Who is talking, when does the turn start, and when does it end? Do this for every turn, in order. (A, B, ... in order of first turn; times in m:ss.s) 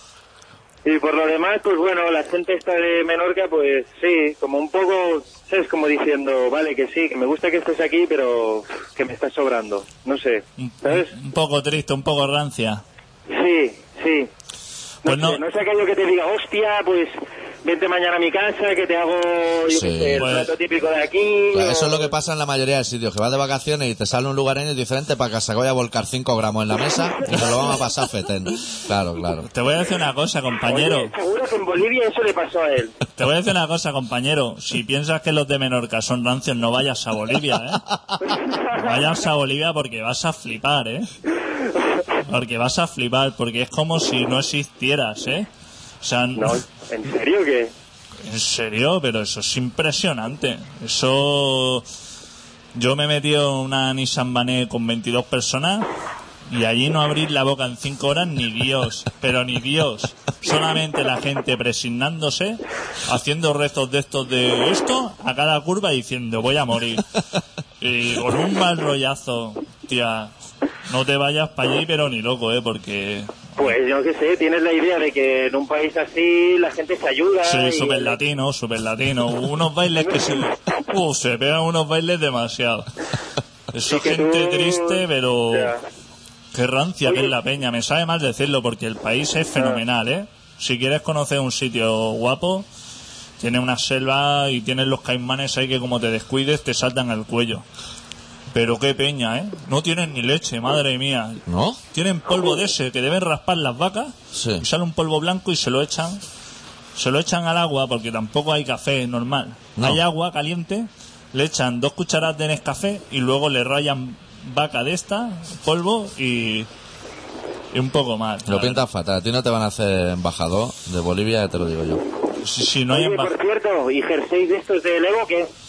0:00.8-0:11.1 A
0:10.6-0:12.8 B
0:13.3-0:14.3 A
0:15.0-0:22.1 A
0:15.0-0:15.4 B
0:19.7-0:20.2 C
0:20.2-0:20.5 B
0:21.5-0:29.5 C
0:29.4-0:31.1 B
0:30.7-0:33.0 A
0:33.2-0:37.9 B
0:38.5-0:41.1 B
0:38.5-0:38.8 A
0:42.2-0:45.5 B
0:46.0-0:46.6 B
0:46.4-0:47.7 A
0:48.2-0:51.9 B
0:52.7-0:55.9 B
0:56.4-1:07.2 B
1:07.8-1:10.3 B
1:10.8-1:13.7 B
1:13.6-1:18.2 A
1:17.4-1:22.9 B
1:23.7-1:25.7 B
1:23.9-1:25.8 A
1:26.5-1:32.7 B
1:27.0-1:27.3 A
1:33.4-1:37.6 B
1:38.5-1:46.2 B
1:41.4-1:41.8 C
1:44.3-1:44.6 C
1:47.0-1:56.7 B
1:49.8-1:50.0 C
1:57.7-1:58.8 B
1:58.5-2:02.0 C
2:02.4-2:03.3 B
2:02.9-2:05.5 A